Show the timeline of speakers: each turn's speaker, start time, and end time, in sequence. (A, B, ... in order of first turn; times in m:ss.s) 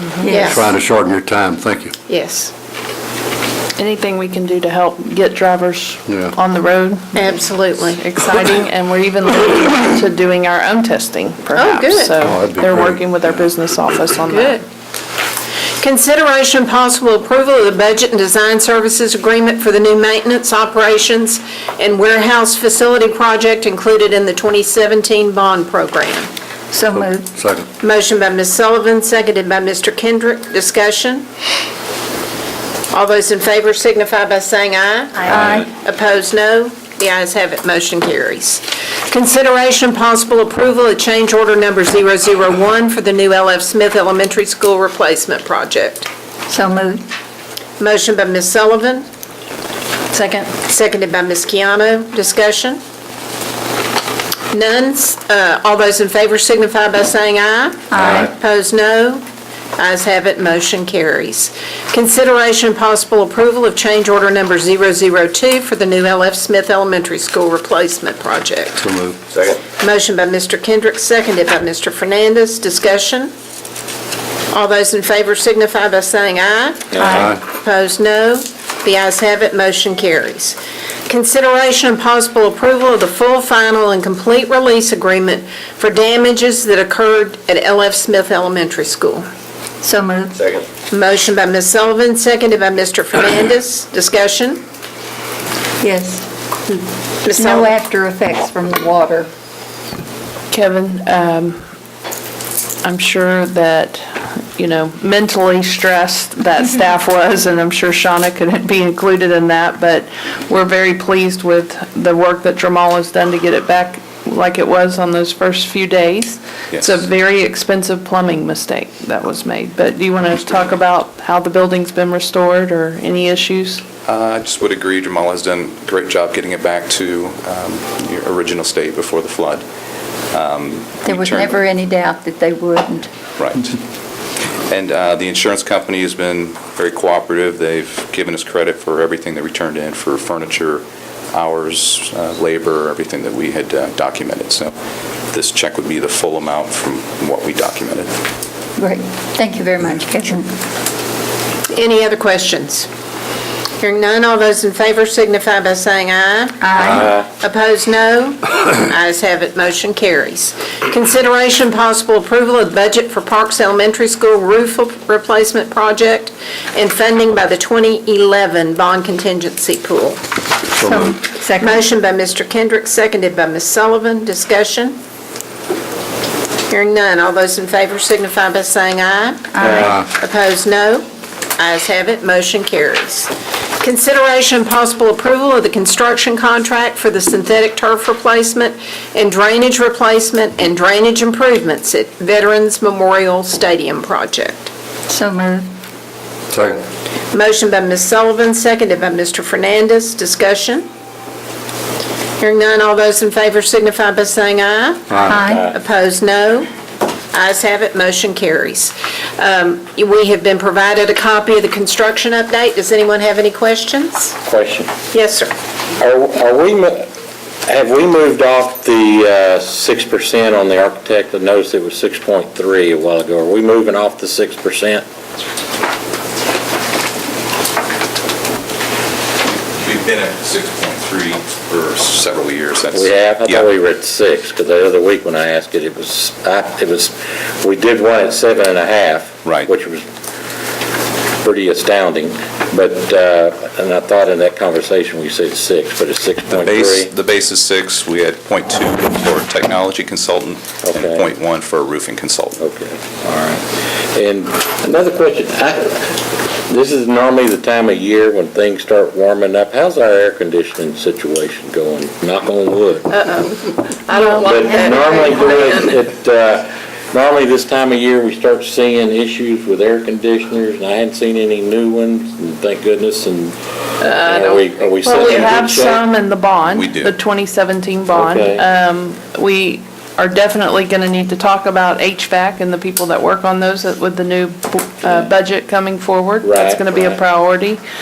0:00.3-0:00.7 A
0:00.3-0:01.9 B
0:02.1-0:02.5 A
0:03.8-0:14.6 C
0:06.1-0:06.3 B
0:07.2-0:08.0 A
0:11.6-0:12.2 A
0:12.2-0:13.0 B
0:14.3-0:14.6 A
0:15.8-0:26.3 A
0:26.7-0:27.2 D
0:27.0-0:27.7 B
0:27.8-0:31.3 A
0:32.9-0:46.1 A
0:46.5-0:47.0 D
0:47.8-0:49.1 A
0:50.1-0:50.5 C
0:50.6-0:52.8 A
0:54.5-0:59.2 A
0:58.0-0:58.3 B
0:59.8-1:08.8 A
1:08.8-1:09.2 B
1:09.6-1:13.3 A
1:14.5-1:20.6 A
1:16.9-1:17.3 E
1:17.1-1:17.4 B
1:21.1-1:29.3 A
1:29.8-1:30.3 D
1:30.9-1:34.6 A
1:35.8-1:36.2 D
1:36.7-1:37.7 A
1:37.5-1:39.3 D
1:40.5-1:41.6 C
1:42.8-2:03.8 C
1:56.7-1:57.0 F
2:04.0-2:09.6 F
2:10.3-2:11.6 F
2:11.1-2:13.1 D
2:13.4-2:13.8 F
2:14.7-2:24.7 F
2:25.3-2:28.1 F
2:28.8-2:30.5 D
2:31.7-2:32.9 A
2:33.8-2:50.2 A
2:36.6-2:37.1 D
2:36.8-2:37.3 E
2:50.7-2:51.2 B
2:50.8-2:51.7 D
2:51.6-2:55.0 A
2:56.7-3:01.1 A
2:59.6-3:00.0 E
3:01.6-3:14.7 A
3:15.1-3:15.7 D
3:16.5-3:16.8 B
3:17.3-3:20.9 A
3:22.4-3:26.7 A
3:25.3-3:25.6 D
3:25.5-3:25.8 E
3:27.3-3:34.4 A
3:34.5-3:34.9 E
3:35.1-3:35.5 A
3:36.0-3:37.1 E
3:37.7-3:45.0 E
3:49.8-3:53.6 F
3:52.9-4:00.1 E
3:59.4-3:59.7 F
4:01.4-4:07.1 E
4:06.5-4:12.6 F
4:10.8-4:11.3 E
4:12.6-4:23.2 E
4:23.1-4:25.9 A
4:24.3-4:33.6 E
4:34.0-4:47.8 C
4:34.1-4:36.0 E
4:36.7-4:37.1 F
4:38.1-4:38.7 E
4:46.4-4:47.2 E